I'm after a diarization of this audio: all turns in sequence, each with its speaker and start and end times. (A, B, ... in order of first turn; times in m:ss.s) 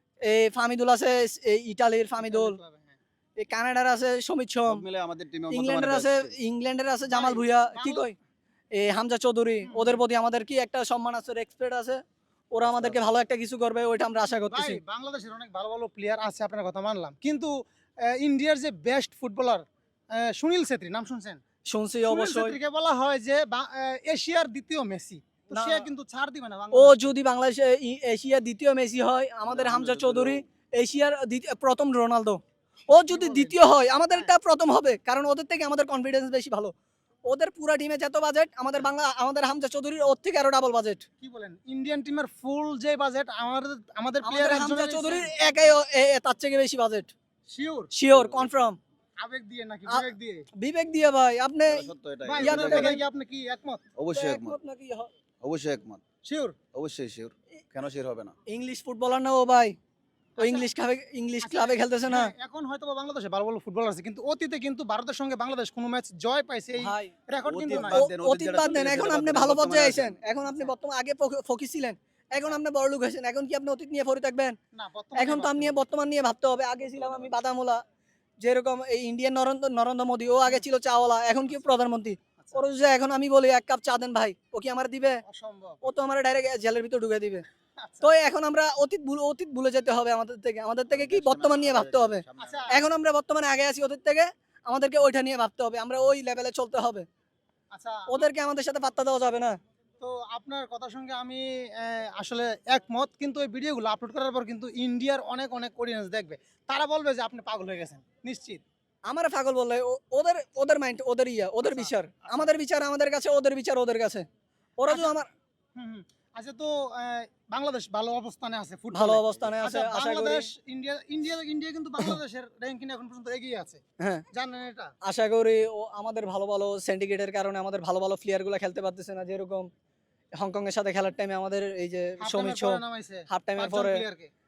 0:00.2-0:02.6 A
0:02.2-0:03.0 B
0:03.4-0:04.8 A
0:04.7-0:06.4 C
0:05.5-0:08.2 A
0:07.1-0:08.1 B
0:08.7-0:12.0 A
0:09.6-0:10.0 B
0:12.5-0:14.8 A
0:12.6-0:13.0 C
0:14.5-0:21.4 B
0:21.7-0:22.6 A
0:22.1-0:27.1 B
0:25.5-0:25.9 A
0:26.7-0:36.7 A
0:29.5-0:30.4 C
0:32.9-0:33.6 B
0:37.2-0:41.1 A
0:41.2-0:45.6 B
0:44.2-0:47.1 A
0:47.5-0:47.9 B
0:47.9-0:48.8 A
0:48.1-0:48.5 C
0:49.2-0:50.5 B
0:50.6-0:53.0 A
0:51.7-0:53.0 C
0:52.2-0:53.9 B
0:54.0-0:54.6 C
0:54.1-0:55.1 A
0:55.4-0:56.0 C
0:56.2-0:56.6 B
0:56.7-0:58.4 C
0:58.5-0:59.8 A
1:00.4-1:00.7 B
1:00.4-1:02.3 A
1:01.4-1:08.1 B
1:06.8-1:07.1 A
1:07.4-1:10.2 C
1:07.8-1:14.6 A
1:14.7-1:15.8 B
1:15.2-1:17.8 A
1:17.0-1:17.3 C
1:18.4-1:25.2 A
1:25.3-1:25.8 B
1:25.8-1:27.4 A
1:27.8-1:28.1 B
1:28.0-1:37.1 A
1:30.9-1:32.8 C
1:32.4-1:32.8 B
1:37.7-1:38.2 B
1:38.1-1:39.6 A
1:40.0-1:48.6 B
1:49.1-1:54.3 A
1:51.7-1:52.5 B
1:54.8-1:55.3 A
1:54.9-1:55.1 B
1:55.8-2:03.8 B
1:58.9-2:00.5 A
2:04.0-2:04.2 A
2:04.3-2:04.9 B
2:05.0-2:09.7 A
2:10.4-2:14.0 A
2:12.2-2:14.3 B